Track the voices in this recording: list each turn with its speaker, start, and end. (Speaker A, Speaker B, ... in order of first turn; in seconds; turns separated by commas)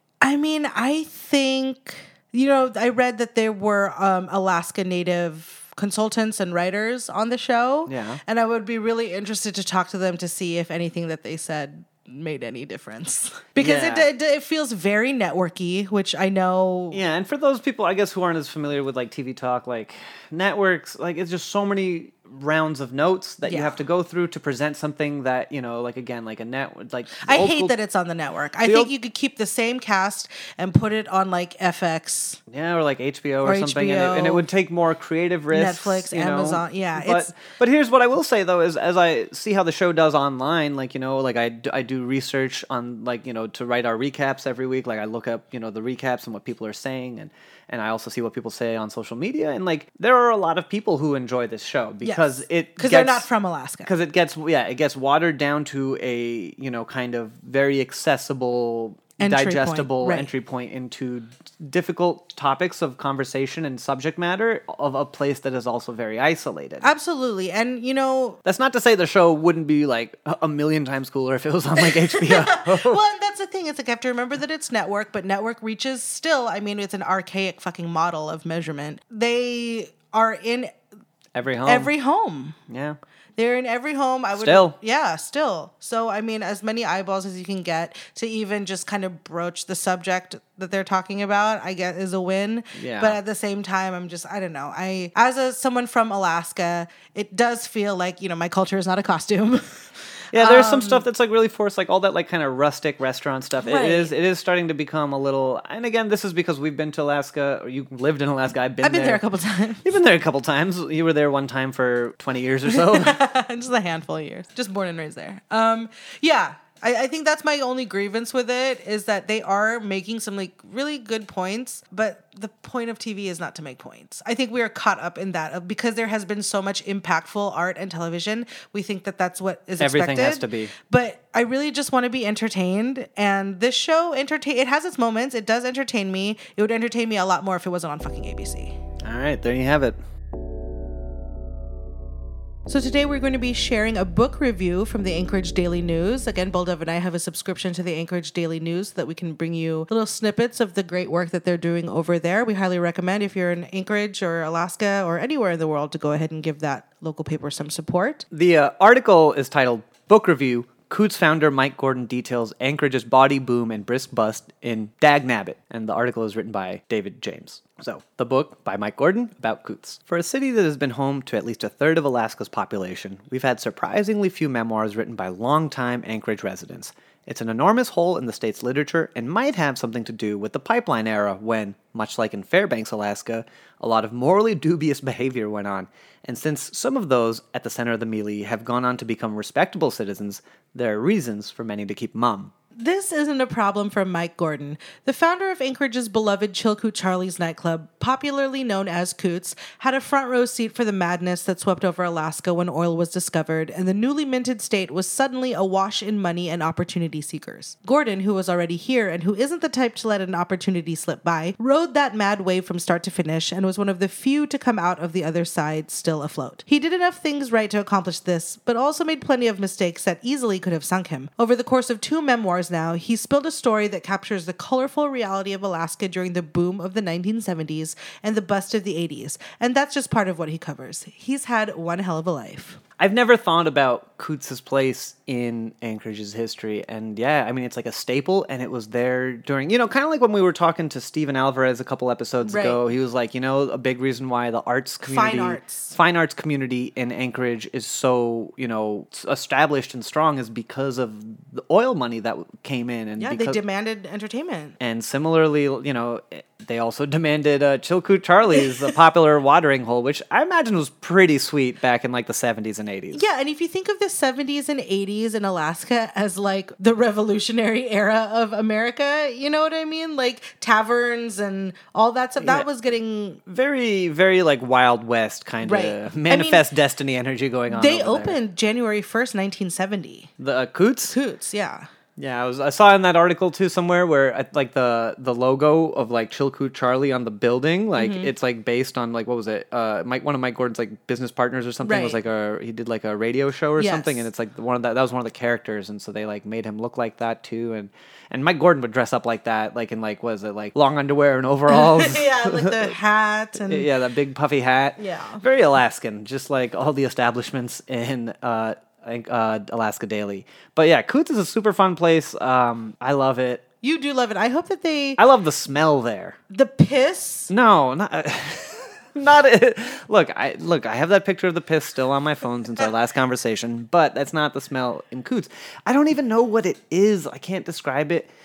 Speaker A: 0.2-17.0, Speaker B: 7.9-8.2, Speaker B: 13.6-14.1, Speaker B: 16.9-27.7, Speaker A: 23.4-23.8, Speaker A: 27.2-32.4, Speaker B: 28.6-28.9, Speaker B: 32.5-53.3, Speaker A: 33.4-34.5, Speaker A: 35.5-37.3, Speaker A: 52.0-53.9, Speaker B: 53.9-66.9, Speaker A: 59.2-60.3, Speaker A: 66.8-68.4, Speaker B: 68.4-73.0, Speaker A: 71.8-80.7, Speaker B: 81.3-81.9, Speaker A: 81.6-82.6, Speaker B: 82.7-83.0, Speaker A: 83.4-101.0, Speaker B: 84.3-84.7, Speaker B: 92.7-93.2, Speaker B: 100.3-109.2, Speaker A: 103.6-104.1, Speaker A: 108.8-109.8, Speaker B: 109.8-113.2, Speaker A: 112.7-138.8, Speaker B: 129.8-130.7, Speaker B: 139.0-140.0, Speaker A: 142.7-158.2, Speaker B: 158.3-192.5, Speaker A: 192.8-232.8, Speaker B: 233.0-253.6, Speaker A: 242.4-242.8, Speaker A: 245.0-245.9, Speaker A: 253.2-254.8, Speaker B: 254.8-263.2, Speaker A: 263.1-273.4, Speaker B: 272.4-272.6, Speaker B: 273.5-278.4, Speaker A: 275.6-276.6, Speaker A: 277.7-280.3, Speaker B: 280.4-281.2, Speaker A: 281.1-281.9, Speaker B: 282.2-302.9, Speaker A: 287.9-288.3, Speaker A: 291.8-292.2, Speaker A: 293.8-294.2, Speaker A: 301.7-303.9, Speaker B: 303.6-313.6, Speaker A: 305.0-305.4, Speaker A: 313.8-315.2, Speaker B: 315.2-316.4, Speaker A: 316.5-317.5, Speaker B: 317.5-328.3